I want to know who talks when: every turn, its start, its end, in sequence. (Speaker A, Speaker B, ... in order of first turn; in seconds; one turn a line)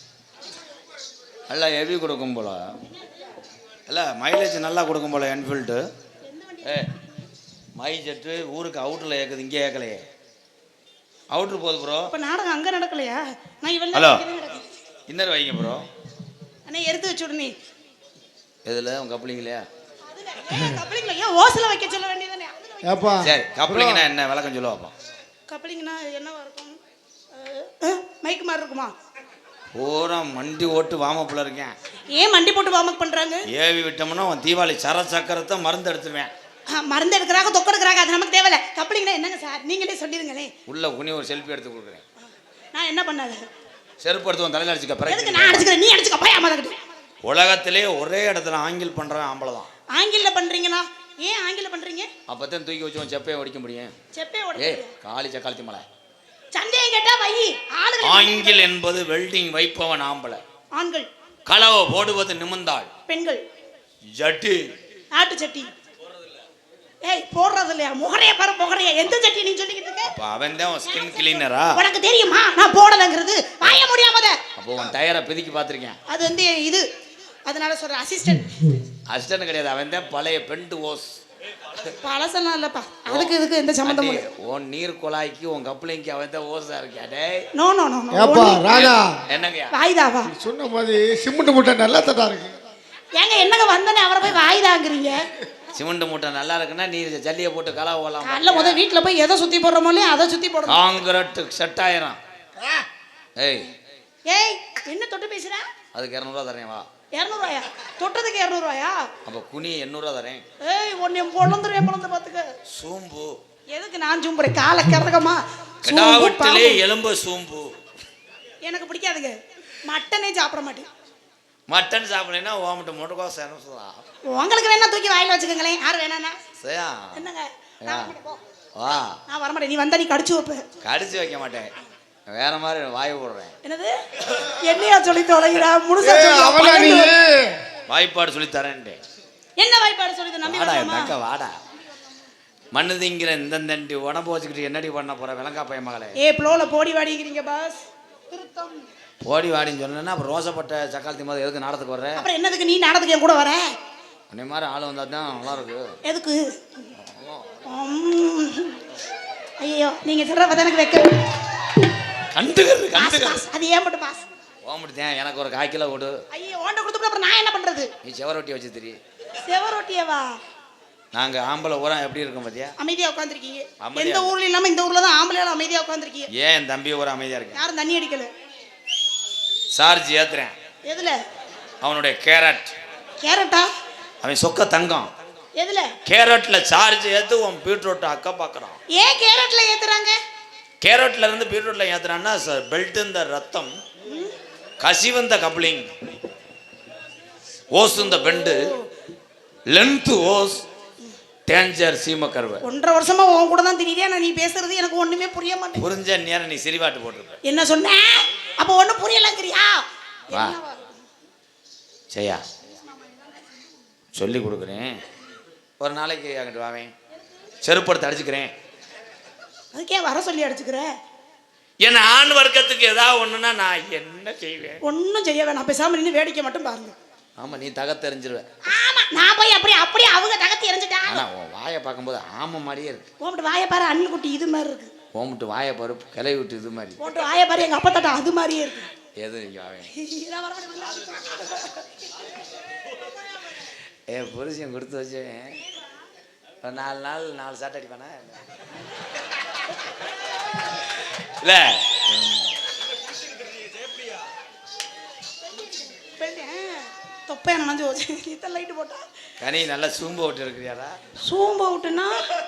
Speaker A: 1.5-2.8
Speaker A: 3.9-5.8
Speaker B: 6.2-6.9
Speaker A: 6.6-6.9
Speaker A: 7.8-10.0
Speaker A: 11.3-12.1
Speaker B: 12.1-14.7
Speaker A: 13.9-14.2
Speaker A: 15.1-15.8
Speaker B: 16.6-17.5
Speaker A: 18.6-19.6
Speaker B: 20.1-23.2
Speaker C: 22.9-24.0
Speaker A: 23.2-24.9
Speaker B: 25.5-26.8
Speaker B: 27.3-28.9
Speaker A: 29.7-31.7
Speaker B: 32.1-33.5
Speaker A: 33.5-36.3
Speaker B: 36.7-40.5
Speaker A: 40.7-42.0
Speaker B: 42.7-43.4
Speaker A: 44.0-45.7
Speaker B: 45.1-46.8
Speaker A: 47.2-49.7
Speaker B: 49.9-52.1
Speaker A: 52.3-53.9
Speaker B: 54.1-54.9
Speaker A: 54.5-55.8
Speaker B: 56.5-58.7
Speaker A: 58.0-60.4
Speaker B: 60.7-61.1
Speaker A: 61.5-62.9
Speaker B: 63.1-63.4
Speaker A: 64.1-64.7
Speaker B: 65.1-65.7
Speaker B: 67.0-70.1
Speaker A: 70.1-71.8
Speaker B: 71.0-74.4
Speaker A: 74.6-76.0
Speaker B: 76.1-76.8
Speaker B: 77.5-78.6
Speaker A: 79.1-81.1
Speaker B: 81.8-84.2
Speaker A: 83.8-87.5
Speaker B: 87.5-88.8
Speaker C: 88.1-89.2
Speaker A: 88.6-89.8
Speaker B: 89.7-90.3
Speaker C: 90.3-92.6
Speaker B: 93.2-95.2
Speaker A: 95.7-98.8
Speaker B: 98.2-100.8
Speaker A: 100.7-102.2
Speaker A: 103.4-103.7
Speaker B: 104.3-105.6
Speaker A: 105.9-106.9
Speaker B: 107.1-109.0
Speaker A: 109.2-110.4
Speaker B: 110.6-112.5
Speaker A: 112.7-113.3
Speaker B: 113.7-116.8
Speaker A: 115.8-117.8
Speaker B: 118.6-120.9
Speaker A: 121.7-124.0
Speaker B: 124.3-126.3
Speaker A: 126.6-127.2
Speaker B: 127.1-128.4
Speaker A: 127.8-128.1
Speaker A: 128.8-129.2
Speaker B: 129.3-130.6
Speaker A: 130.8-131.7
Speaker A: 132.3-133.5
Speaker B: 133.6-137.1
Speaker C: 136.1-137.6
Speaker A: 137.9-139.0
Speaker B: 139.6-141.1
Speaker A: 140.4-141.5
Speaker A: 142.7-146.2
Speaker B: 146.2-148.9
Speaker A: 149.2-152.2
Speaker B: 152.2-153.6
Speaker A: 154.3-156.0
Speaker B: 156.1-156.8
Speaker A: 156.9-157.6
Speaker B: 157.7-158.8
Speaker B: 159.6-161.2
Speaker A: 162.3-163.4
Speaker B: 162.9-164.2
Speaker A: 164.6-166.2
Speaker B: 166.3-167.9
Speaker A: 168.0-169.0
Speaker B: 169.4-170.3
Speaker A: 171.1-172.7
Speaker B: 172.8-176.3
Speaker A: 173.8-174.3
Speaker A: 176.3-177.6
Speaker B: 177.5-178.3
Speaker A: 179.7-180.5
Speaker B: 180.9-181.2
Speaker A: 181.8-182.7
Speaker B: 183.2-183.7
Speaker A: 184.2-185.1
Speaker B: 185.6-185.9
Speaker A: 186.0-188.8
Speaker B: 188.9-190.2
Speaker A: 190.8-193.7
Speaker B: 194.1-194.3
Speaker A: 194.8-195.9
Speaker A: 197.7-198.7
Speaker B: 198.1-198.8
Speaker A: 199.7-200.6
Speaker A: 201.5-202.6
Speaker B: 202.6-205.8
Speaker A: 205.8-207.4
Speaker B: 207.4-210.9
Speaker A: 210.3-210.6
Speaker A: 212.1-212.4
Speaker A: 214.1-215.0
Speaker A: 215.8-216.9
Speaker A: 217.6-218.5
Speaker B: 219.7-220.9
Speaker A: 221.8-224.8
Speaker B: 224.8-226.9
Speaker A: 227.4-228.4
Speaker B: 228.7-231.2
Speaker A: 231.1-233.1
Speaker B: 233.2-234.9
Speaker A: 235.1-237.0
Speaker B: 237.0-238.9
Speaker A: 239.2-239.9
Speaker B: 239.9-241.8
Speaker A: 244.1-245.6
Speaker A: 246.6-248.4
Speaker A: 250.7-252.5
Speaker B: 256.1-259.0
Speaker A: 259.4-260.9
Speaker B: 261.2-262.1